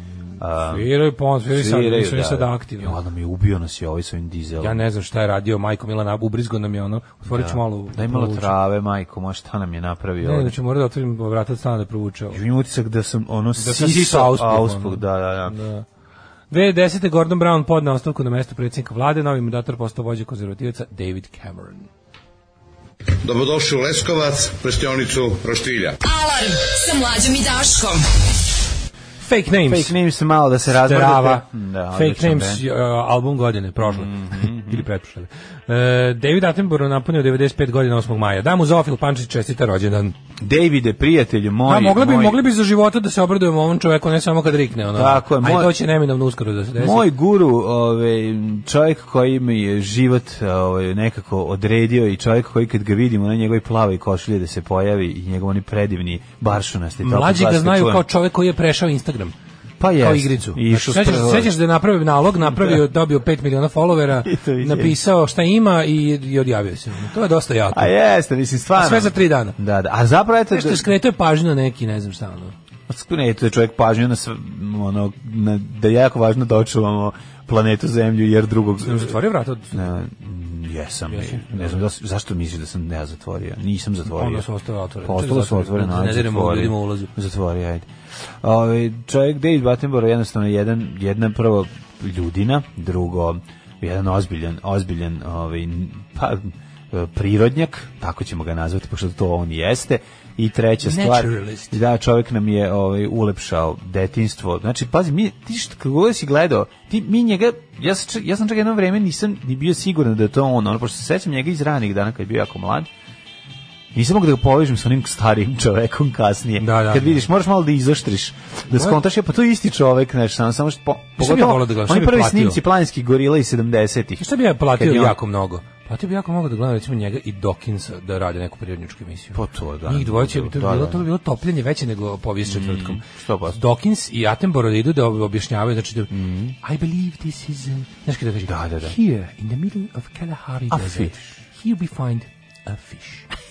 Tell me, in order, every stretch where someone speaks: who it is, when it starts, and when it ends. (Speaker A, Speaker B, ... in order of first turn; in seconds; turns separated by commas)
Speaker A: 0.4-0.9, Speaker B: 0.6-3.0, Speaker A: 1.5-4.8, Speaker B: 4.6-8.5, Speaker A: 7.3-10.6, Speaker B: 10.2-12.4, Speaker A: 12.3-15.6, Speaker B: 13.6-15.9, Speaker B: 16.5-21.9, Speaker C: 23.2-26.0, Speaker D: 26.0-28.2, Speaker B: 29.2-29.9, Speaker A: 29.6-32.6, Speaker B: 30.7-40.1, Speaker A: 33.8-34.9, Speaker A: 40.4-42.4, Speaker B: 41.7-47.1, Speaker A: 44.9-45.8, Speaker A: 46.8-58.0, Speaker B: 57.0-59.3, Speaker A: 59.8-61.5, Speaker B: 60.0-67.9, Speaker A: 62.5-62.8, Speaker A: 64.2-65.0, Speaker A: 67.7-70.9, Speaker B: 68.8-69.6, Speaker B: 70.5-72.5, Speaker A: 72.9-79.2, Speaker B: 78.8-79.8, Speaker A: 79.7-84.5, Speaker B: 81.1-81.9, Speaker B: 84.1-87.1, Speaker A: 85.0-87.9, Speaker A: 88.4-112.9, Speaker B: 100.8-101.8, Speaker A: 113.9-125.2, Speaker B: 116.6-117.2, Speaker B: 118.7-119.0, Speaker B: 121.2-122.6, Speaker B: 124.2-133.0, Speaker A: 129.3-131.1, Speaker A: 132.4-133.6, Speaker B: 133.5-143.3, Speaker A: 136.1-136.6, Speaker A: 138.5-138.9, Speaker A: 140.7-141.3